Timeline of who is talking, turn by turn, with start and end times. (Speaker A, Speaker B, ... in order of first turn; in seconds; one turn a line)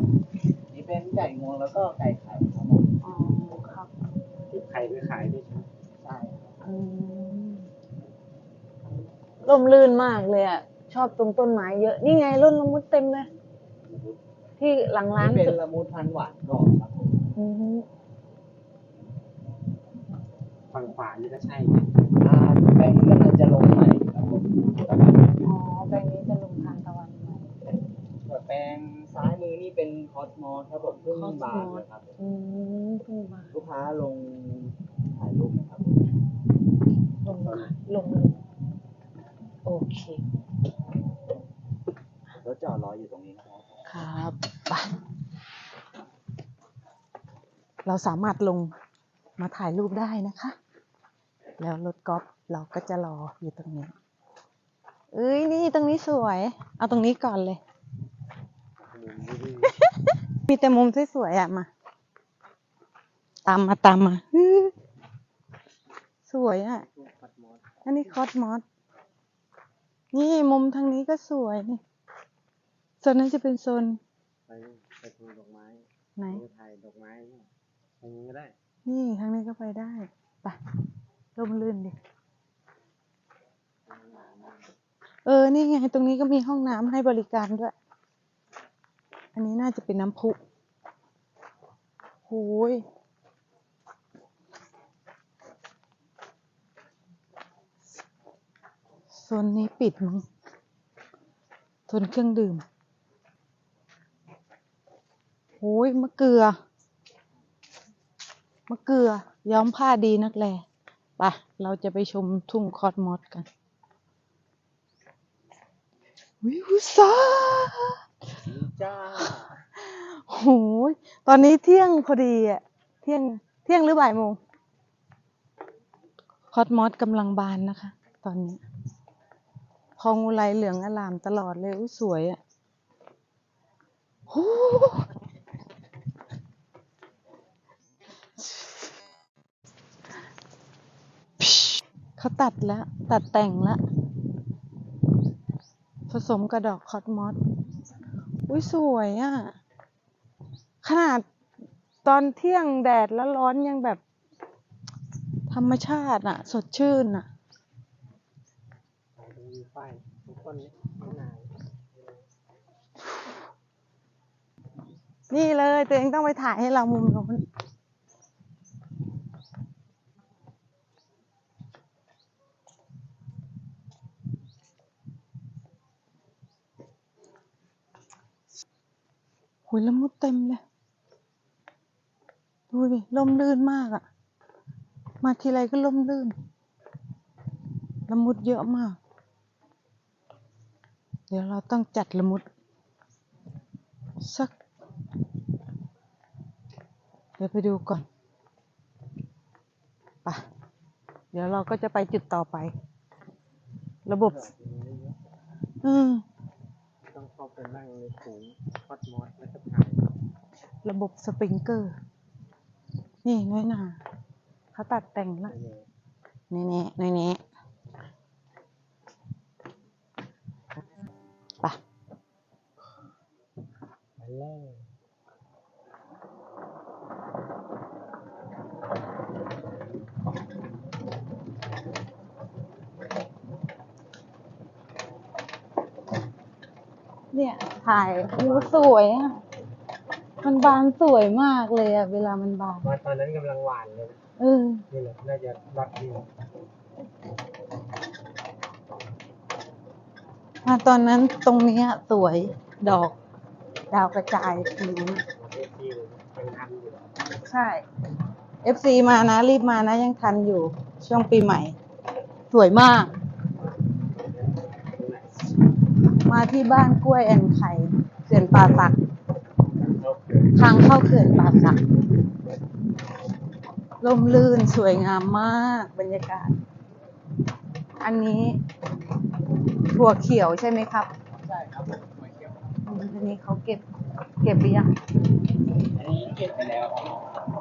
Speaker A: 0.7-2.9
Speaker B: 3.0-3.9
Speaker C: 4.5-5.7
Speaker A: 6.0-6.4
Speaker B: 6.6-7.7
Speaker B: 9.4-13.3
Speaker B: 14.6-15.6
Speaker A: 15.2-17.2
Speaker B: 17.4-17.9
Speaker C: 20.7-21.9
Speaker A: 22.2-25.4
Speaker B: 25.4-27.5
Speaker A: 28.2-32.1
Speaker B: 31.1-33.5
Speaker A: 33.5-36.0
Speaker B: 37.2-38.4
Speaker B: 39.6-40.2
Speaker A: 42.4-43.8
Speaker B: 43.9-44.9
Speaker B: 47.9-48.7
Speaker B: 49.4-50.6
Speaker B: 51.6-53.9
Speaker B: 55.1-57.6
Speaker C: 58.8-59.8
Speaker B: 60.4-61.7
Speaker B: 63.5-64.7
Speaker B: 66.3-66.8
Speaker C: 66.8-67.7
Speaker B: 67.8-68.6
Speaker B: 70.1-71.8
Speaker B: 73.0-74.0
Speaker C: 74.5-77.5
Speaker B: 76.2-76.4
Speaker C: 78.0-78.5
Speaker B: 78.9-80.6
Speaker B: 81.4-82.0
Speaker C: 83.9-84.7
Speaker B: 85.2-87.7
Speaker B: 89.3-90.4
Speaker B: 92.3-92.8
Speaker B: 99.1-100.3
Speaker B: 101.9-102.6
Speaker B: 105.6-106.6
Speaker B: 108.7-110.7
Speaker B: 111.2-113.5
Speaker B: 116.4-118.0
Speaker A: 118.5-119.4
Speaker B: 119.8-124.4
Speaker B: 126.5-128.6
Speaker B: 130.0-132.4
Speaker B: 134.3-135.1
Speaker B: 141.4-143.8
Speaker B: 146.1-147.4
Speaker B: 148.5-149.6
Speaker B: 150.8-151.2
Speaker B: 152.0-154.0
Speaker B: 155.5-157.3
Speaker C: 159.2-162.2
Speaker B: 165.3-167.4
Speaker B: 179.7-180.6
Speaker B: 182.7-184.0
Speaker B: 185.2-186.4
Speaker B: 188.1-189.0
Speaker B: 191.3-192.4
Speaker B: 194.2-194.5
Speaker B: 197.4-198.1
Speaker B: 201.3-202.7
Speaker B: 204.1-204.4
Speaker C: 204.2-205.2
Speaker B: 205.8-206.2
Speaker C: 207.1-210.1
Speaker B: 210.8-212.0
Speaker B: 213.2-214.0
Speaker B: 214.7-215.5
Speaker C: 215.5-215.9
Speaker B: 216.5-217.4
Speaker C: 224.2-224.9
Speaker B: 237.3-239.4
Speaker C: 238.4-238.9
Speaker B: 240.4-242.9
Speaker C: 242.8-244.2
Speaker B: 244.4-244.8
Speaker C: 244.9-246.3
Speaker B: 250.6-253.2
Speaker B: 253.9-255.2
Speaker C: 255.3-257.1
Speaker B: 257.4-257.8
Speaker B: 258.6-261.8
Speaker B: 262.5-263.1
Speaker C: 264.1-265.5
Speaker B: 266.3-269.0
Speaker C: 269.8-270.5
Speaker B: 270.6-271.8
Speaker B: 274.0-276.5
Speaker B: 278.0-278.6
Speaker B: 279.9-281.1
Speaker A: 281.3-282.8
Speaker B: 282.9-283.8
Speaker B: 284.4-284.9
Speaker A: 285.9-287.5